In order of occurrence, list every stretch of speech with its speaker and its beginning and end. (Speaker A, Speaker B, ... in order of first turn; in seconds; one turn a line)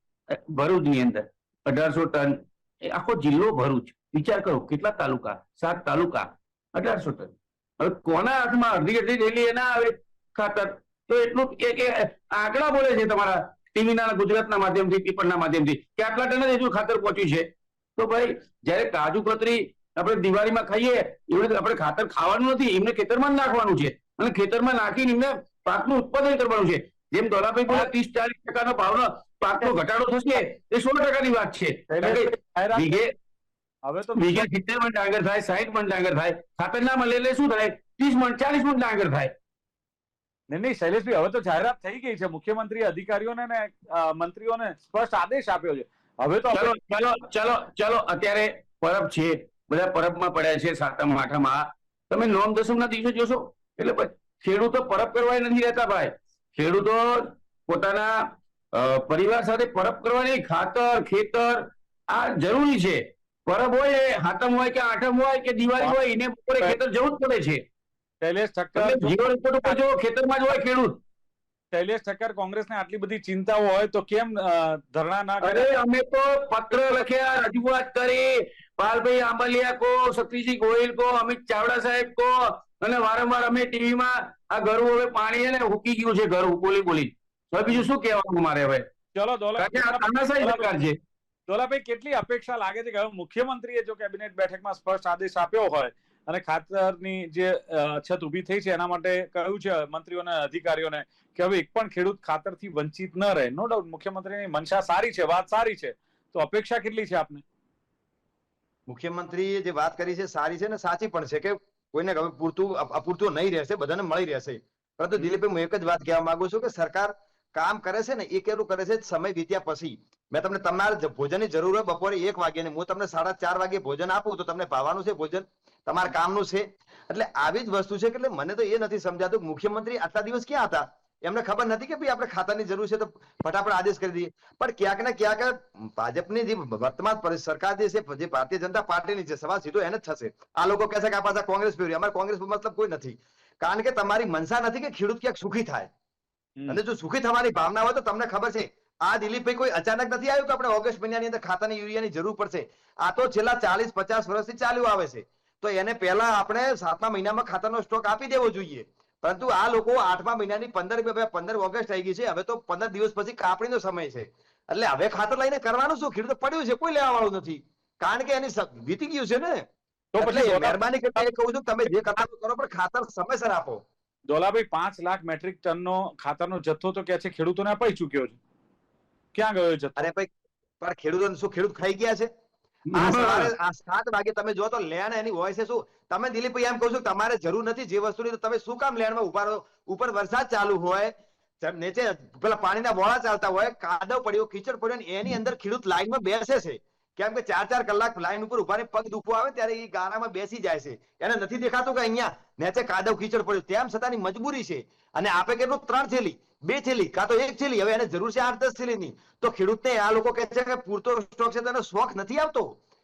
Speaker A: 0.3-33.1
Speaker B: 31.9-33.0
Speaker B: 33.9-34.5
Speaker A: 34.2-39.3
Speaker B: 40.5-46.7
Speaker A: 46.5-67.6
Speaker B: 68.2-69.8
Speaker A: 68.8-71.0
Speaker B: 71.7-75.7
Speaker A: 75.4-88.9
Speaker B: 89.1-90.7
Speaker A: 89.6-91.0
Speaker B: 91.5-107.4
Speaker C: 108.9-145.9
Speaker C: 146.7-169.7
Speaker B: 170.1-171.3
Speaker C: 170.2-173.8
Speaker B: 174.3-178.4
Speaker B: 179.3-180.1
Speaker C: 180.0-182.3
Speaker A: 182.9-183.4
Speaker C: 182.9-212.8